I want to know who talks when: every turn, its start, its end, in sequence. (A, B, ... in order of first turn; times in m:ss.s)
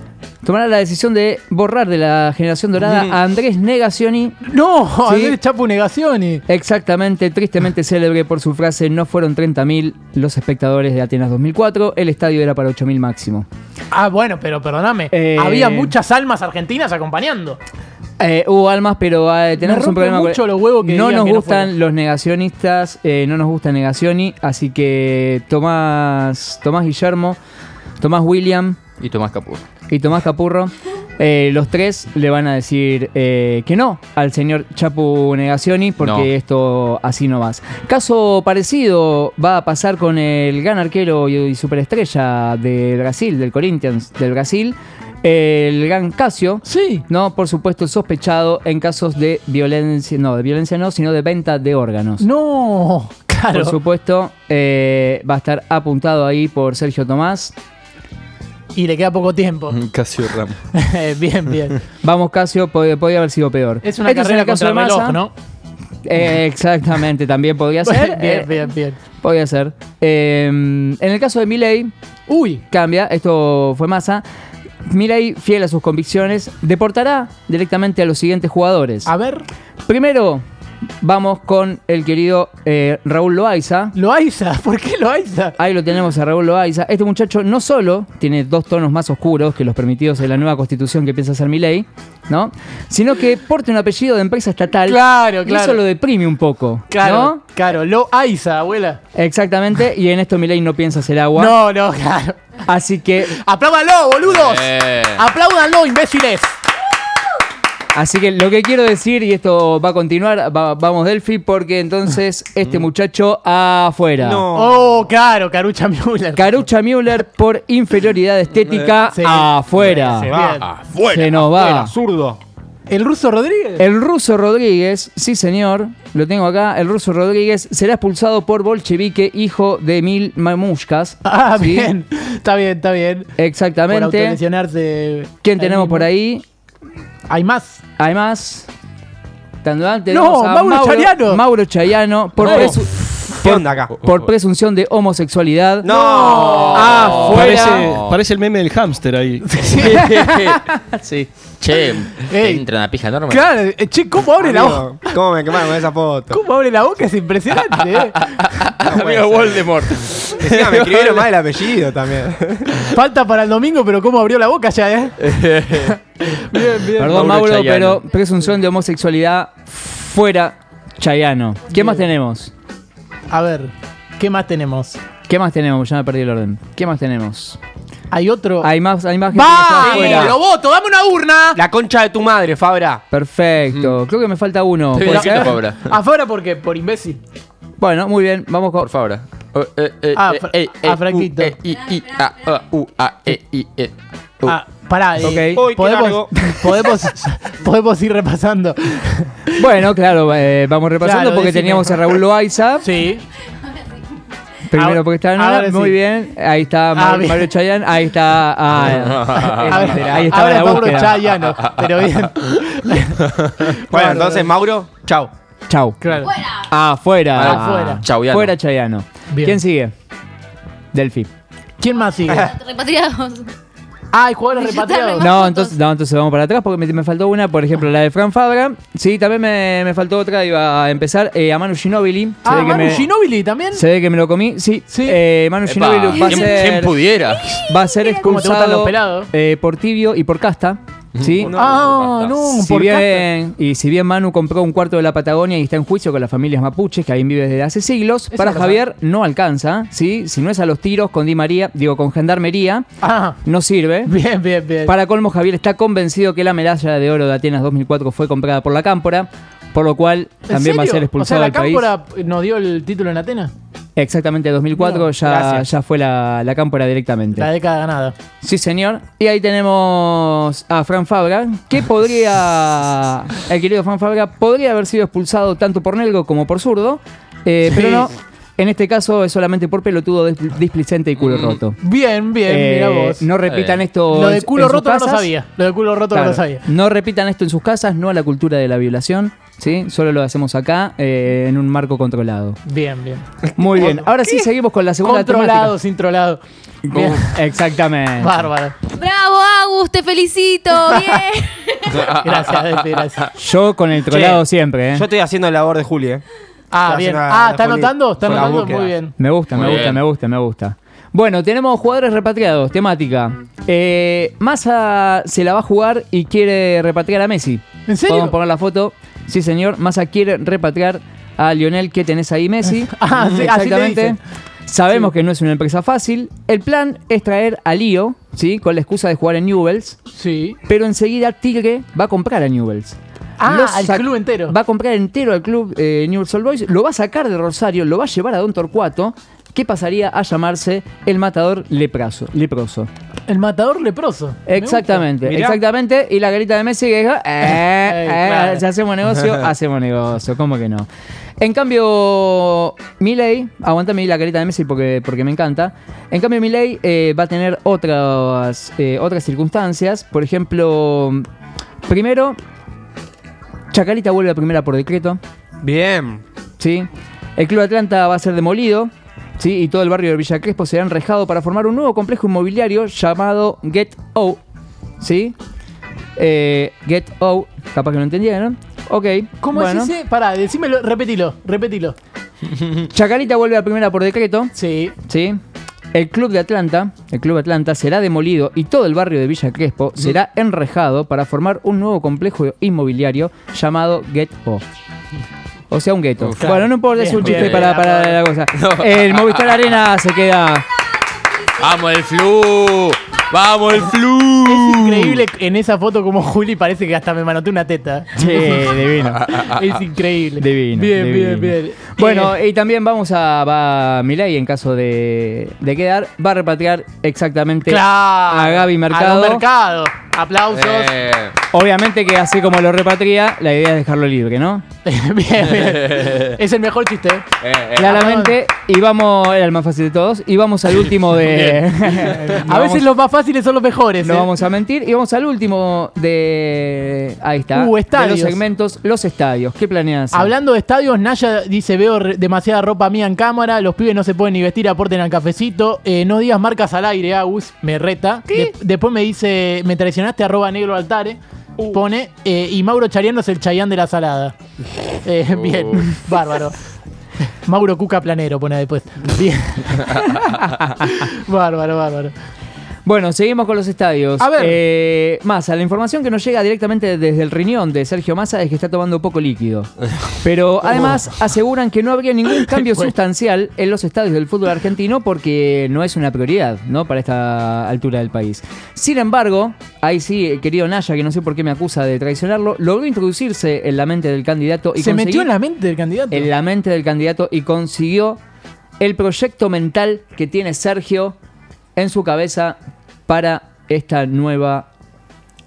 0:00.4-0:04.4 A
0:02.8-0:03.1 B
0:04.4-0:06.4 C
0:05.0-0:05.4 A
0:06.5-0:13.4 A
0:13.9-0:17.6 C
0:15.1-0:15.9 A
0:18.2-0:27.4 A
0:19.6-0:21.7 C
0:28.0-0:28.8 A
0:29.0-0:29.6 B
0:29.9-0:52.2 A
0:36.0-0:36.3 B
0:46.6-0:47.0 C
0:52.2-0:53.8 C
0:53.5-0:57.5 A
0:58.7-0:59.8 C
0:59.7-1:00.6 B
1:00.7-1:01.8 C
1:02.0-1:05.2 A
1:03.8-1:05.3 C
1:06.0-1:08.6 A
1:07.8-1:09.0 C
1:09.2-1:11.9 A
1:12.3-1:12.6 C
1:12.7-1:14.2 A
1:14.8-1:19.1 A
1:19.0-1:19.4 C
1:19.9-1:20.4 A
1:21.0-1:23.9 A
1:23.9-1:25.6 C
1:25.6-1:37.4 A
1:34.8-1:35.8 C
1:36.9-1:39.0 C
1:39.1-1:41.6 A
1:41.3-1:42.4 C
1:42.7-1:43.4 A
1:43.3-1:46.6 C
1:44.2-1:45.2 B
1:47.9-1:54.4 A
1:54.2-1:54.8 D
1:54.5-1:56.6 C
1:56.3-2:00.3 A
1:59.0-2:00.7 C
2:00.1-2:02.4 D
2:00.6-2:01.0 B
2:01.0-2:01.9 A
2:02.9-2:03.9 C
2:03.8-2:11.9 A
2:11.2-2:13.3 C
2:13.4-2:14.4 A
2:13.9-2:16.1 C
2:15.4-2:16.4 A
2:17.3-2:17.8 C
2:18.0-2:18.7 A
2:19.6-2:25.9 A
2:20.1-2:21.4 C
2:22.4-2:23.3 C
2:23.4-2:24.0 D
2:25.8-2:27.5 D
2:25.8-2:27.1 C
2:26.2-2:28.2 B
2:26.7-2:27.9 A
2:27.2-2:29.4 E
2:29.4-2:30.4 C
2:29.8-2:33.5 B
2:32.2-2:32.6 C
2:33.3-2:35.2 C
2:34.4-2:36.4 D
2:36.3-2:38.2 C
2:37.8-2:41.3 B
2:38.8-2:39.7 D
2:40.4-2:42.9 D
2:42.8-2:45.2 C
2:45.2-2:46.0 B
2:45.8-2:47.3 C
2:47.0-2:52.5 A
2:47.0-2:48.0 B
2:51.7-2:52.0 C
2:53.3-2:55.0 C
2:55.3-2:57.6 A
2:58.1-2:58.7 C
2:58.6-3:00.4 A
2:59.3-3:01.6 C
2:59.9-3:00.4 D
3:01.5-3:03.0 D
3:03.1-3:05.6 A
3:04.9-3:05.9 B
3:05.0-3:07.2 C
3:07.8-3:08.9 A
3:08.8-3:13.9 B
3:10.1-3:11.5 C
3:14.4-3:19.5 C
3:15.2-3:15.6 A
3:15.3-3:16.4 D
3:19.6-3:23.0 A
3:21.0-3:22.1 C
3:22.8-3:23.2 C
3:24.7-3:31.3 A
3:24.7-3:26.0 C
3:26.9-3:27.5 C
3:28.8-3:30.0 B
3:29.4-3:34.5 C
3:33.9-3:35.3 D
3:35.7-3:39.9 A
3:36.0-3:36.4 C
3:37.3-3:38.5 B
3:37.4-3:38.0 C
3:39.3-3:39.6 C
3:40.9-3:41.3 A
3:41.8-3:42.5 C
3:42.3-3:42.5 D
3:42.4-3:43.5 F
3:44.1-3:45.3 C
3:44.5-3:45.8 F
3:45.2-3:53.1 A
3:52.4-3:53.8 C
3:53.7-3:56.9 A
3:54.9-3:55.2 C
3:55.6-3:57.6 B
3:56.2-3:56.5 C
3:57.6-4:01.5 A
3:58.2-3:59.3 C
4:01.1-4:02.4 B
4:01.4-4:03.3 C
4:02.5-4:12.8 A
4:08.3-4:08.8 C
4:13.0-4:13.4 C
4:13.4-4:14.1 A
4:14.0-4:14.9 C
4:14.8-4:21.9 A
4:20.5-4:23.5 C
4:24.0-4:27.5 A
4:24.7-4:25.1 C
4:25.2-4:25.6 D
4:27.3-4:28.1 C
4:28.4-4:41.8 A
4:37.7-4:38.1 C
4:41.2-4:41.6 B
4:41.8-4:43.3 C
4:42.4-4:45.3 A
4:43.4-4:43.8 B
4:44.1-4:46.6 C
4:46.1-4:52.6 A
4:52.6-4:54.5 C
4:53.6-4:55.8 A
4:55.0-4:57.4 C
4:56.8-4:58.4 A
4:58.2-4:58.8 C
4:58.9-5:02.0 F
5:01.9-5:03.1 B
5:01.9-5:03.3 C
5:03.4-5:05.1 A
5:04.1-5:06.2 D
5:06.7-5:09.1 C
5:06.9-5:08.9 D
5:09.2-5:30.0 A
5:09.5-5:10.0 B
5:17.9-5:18.4 C
5:22.8-5:24.2 C
5:30.2-5:30.6 C
5:30.6-5:42.9 A
5:33.4-5:34.6 C
5:43.3-5:45.1 C
5:44.5-5:50.9 A
5:45.2-5:45.6 D
5:47.8-5:48.6 C
5:51.4-6:01.2 A
6:01.8-6:02.4 A
6:03.7-6:05.2 A
6:05.6-6:06.2 D
6:06.6-6:14.4 A
6:15.0-6:15.3 A
6:16.2-6:19.9 A
6:19.4-6:22.0 C
6:22.8-6:24.5 A
6:24.6-6:24.9 C
6:25.0-6:25.4 A
6:25.9-6:34.6 A
6:35.7-6:40.6 A
6:36.4-6:38.2 C
6:37.1-6:37.7 B
6:38.5-6:39.6 B
6:41.6-6:45.2 B
6:44.4-6:52.3 C
6:48.1-6:49.3 A
6:50.4-6:59.4 A
6:57.6-7:00.9 C
7:00.5-7:01.4 B
7:01.5-7:04.6 A
7:04.8-7:07.2 C
7:07.4-7:08.0 B
7:07.8-7:12.9 A
7:07.8-7:08.4 C
7:12.4-7:14.3 C
7:14.0-7:20.3 A
7:17.5-7:18.4 C
7:20.1-7:34.3 C
7:35.0-7:36.6 C
7:35.3-7:35.9 B
7:37.4-7:42.1 C
7:40.5-7:40.9 A
7:42.8-7:49.7 A
7:44.2-7:44.6 C
7:50.2-8:05.3 A
7:52.6-7:52.9 C
8:04.8-8:06.3 C
8:06.1-8:08.2 A
8:08.8-8:11.2 A
8:11.8-8:12.6 A
8:13.1-8:14.7 A